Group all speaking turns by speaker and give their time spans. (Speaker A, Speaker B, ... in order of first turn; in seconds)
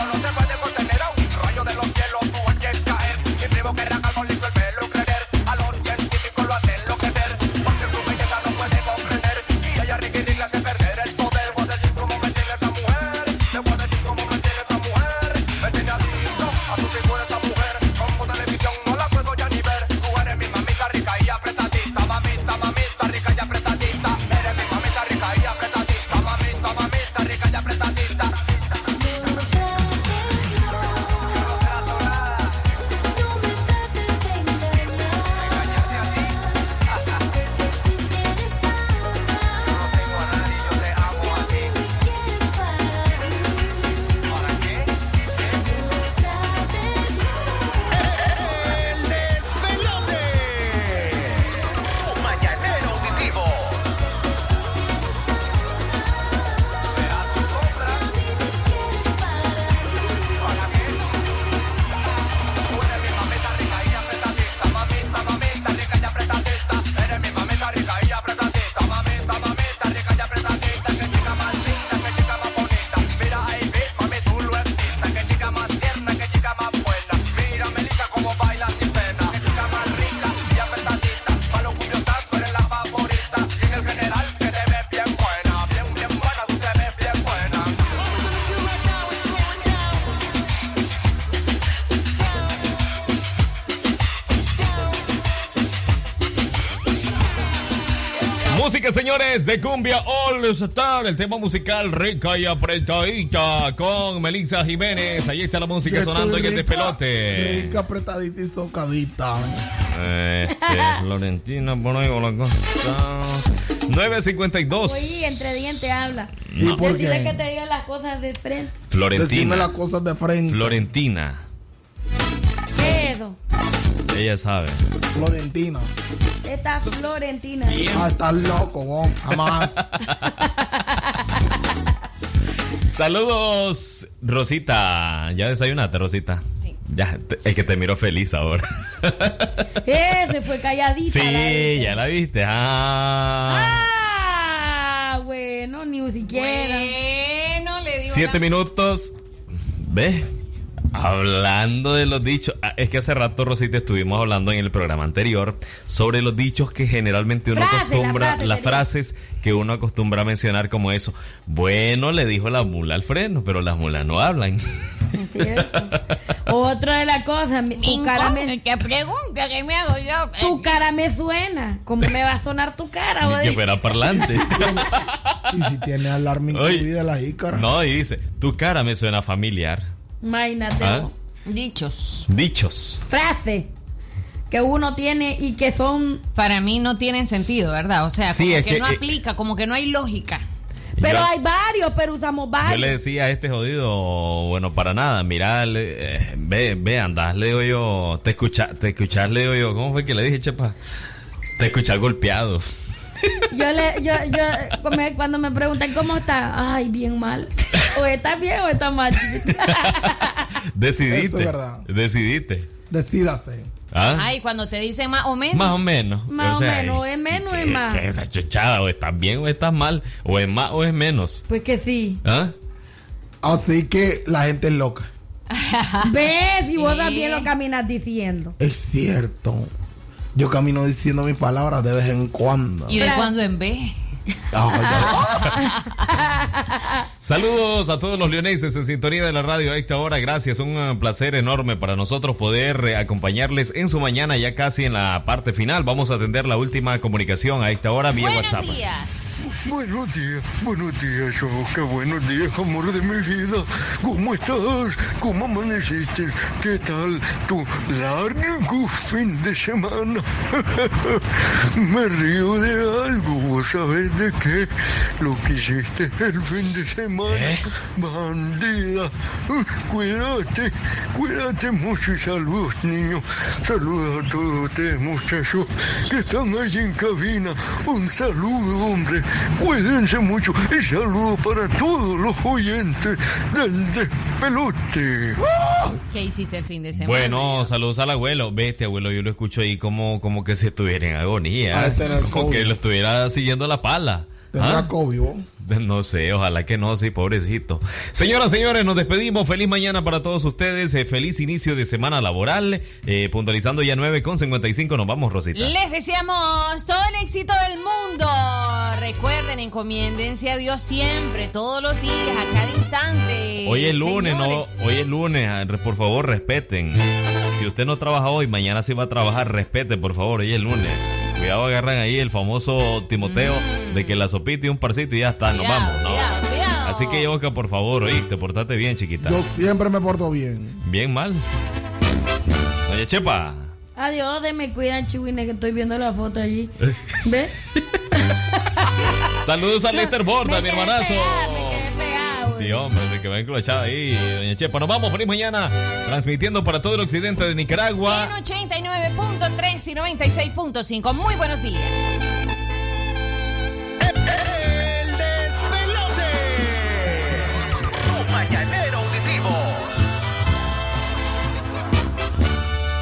Speaker A: 48.5-51.2, 52.0-53.8, 354.1-357.4, 358.1-359.9
Speaker B: 98.5-107.8, 109.9-115.1, 116.5-116.9, 118.9-119.7, 120.5-121.4, 124.1-124.8, 132.9-139.3, 141.0-143.8, 148.0-149.1, 149.8-150.3, 150.9-164.6, 165.4-165.8, 173.2-175.1, 176.5-176.9, 177.5-179.9, 180.8-181.1, 182.3-183.0, 188.3-189.1, 191.0-191.3, 192.6-200.8, 201.6-202.6, 209.7-210.1, 210.8-212.7, 213.9-214.3, 215.5-221.4, 222.2-222.5, 237.2-248.8, 286.9-294.9, 295.6-305.7, 313.6-329.4, 330.9-331.4, 332.9-333.7, 339.4-341.9, 342.5-348.3
Speaker C: 105.8-109.6, 116.6-117.4, 119.2-120.8, 125.1-125.9, 127.9-129.8, 174.1-174.8, 175.5-177.7, 211.1-211.9, 212.9-213.7, 223.4-225.1, 228.6-229.7, 230.3-232.9, 234.5-235.2, 285.4-286.0, 291.7-292.8, 294.5-295.4, 329.2-330.8
Speaker D: 110.6-110.8, 114.7-118.7, 122.8-123.4, 126.5-127.9, 130.4-131.2, 139.8-142.0, 143.5-146.9, 157.5-158.8, 165.2-165.9, 166.5-168.5, 170.4-173.6, 180.2-181.1, 183.1-183.7, 184.5-186.2, 191.0-193.0, 203.5-210.4, 216.3-218.0, 221.5-222.2, 226.1-228.6, 233.0-233.3, 235.0-235.6, 236.3-237.0, 334.0-336.7, 337.2-337.5, 340.4-342.8
Speaker E: 146.3-148.5, 181.5-182.3, 186.3-190.4, 214.1-215.8, 225.5-226.2, 226.8-227.5, 232.9-233.9, 248.2-249.2, 286.1-287.7, 305.5-314.7, 323.2-324.2, 325.5-327.3, 348.0-352.1
Speaker F: 167.8-170.8
Speaker G: 249.7-261.1, 261.8-285.4